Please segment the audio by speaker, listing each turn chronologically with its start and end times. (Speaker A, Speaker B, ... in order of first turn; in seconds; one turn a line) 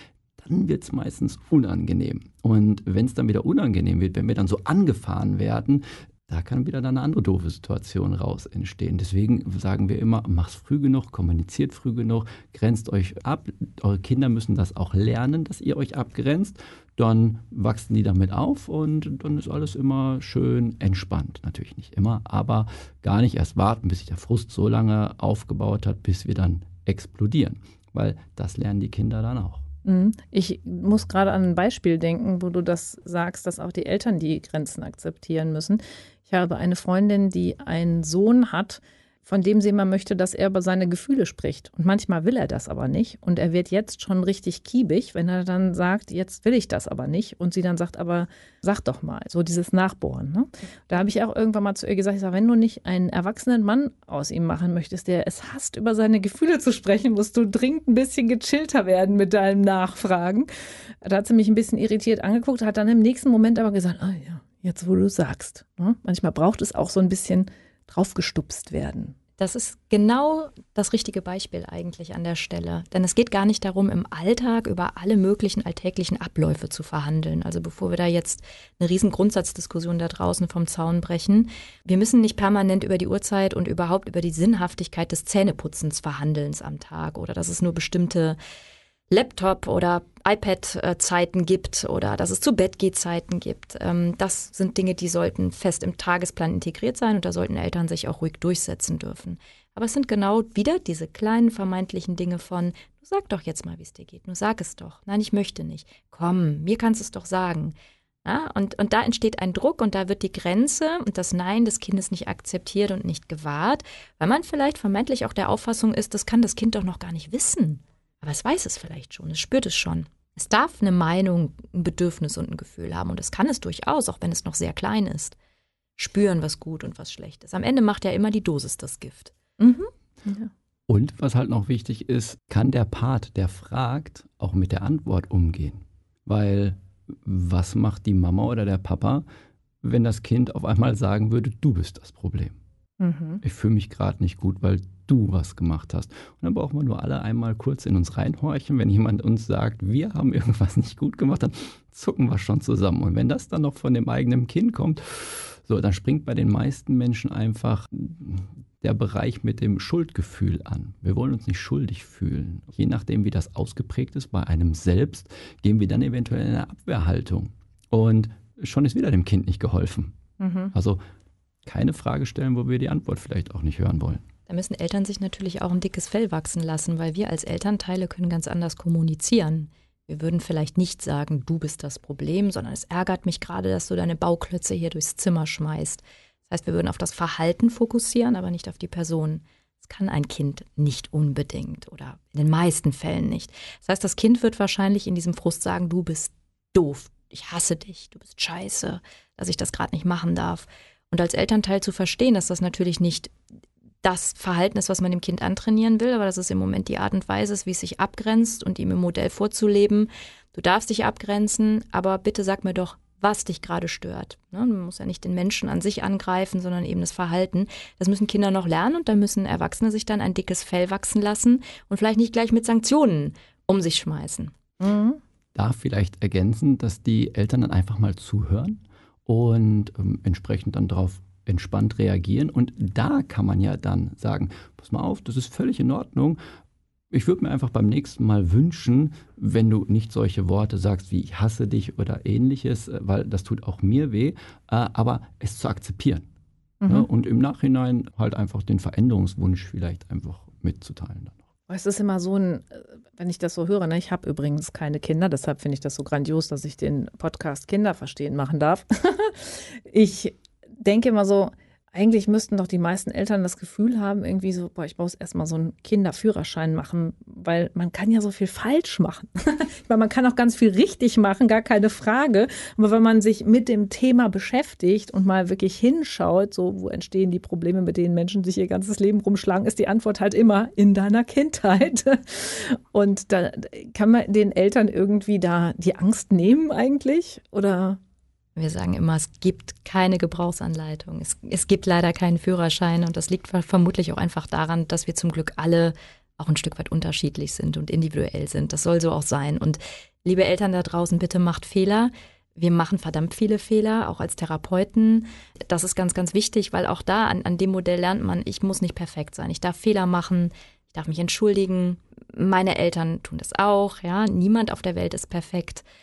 Speaker A: 0.4-29.6
Speaker B: 29.9-60.5
Speaker B: 61.0-69.2
Speaker C: 69.4-88.4
Speaker C: 89.1-125.4
Speaker C: 126.0-129.3
Speaker B: 129.6-130.5
Speaker A: 130.9-139.2
Speaker A: 139.8-142.6
Speaker B: 143.0-143.4
Speaker A: 143.4-170.2
Speaker B: 170.4-170.7
Speaker A: 170.7-171.0
Speaker A: 171.7-174.2
Speaker C: 174.5-203.3
Speaker C: 204.0-224.5
Speaker B: 224.8-225.2
Speaker A: 225.6-236.4
Speaker A: 237.1-246.3
Speaker B: 246.8-247.1
Speaker A: 246.9-251.4
Speaker B: 251.7-288.0
Speaker C: 288.6-315.9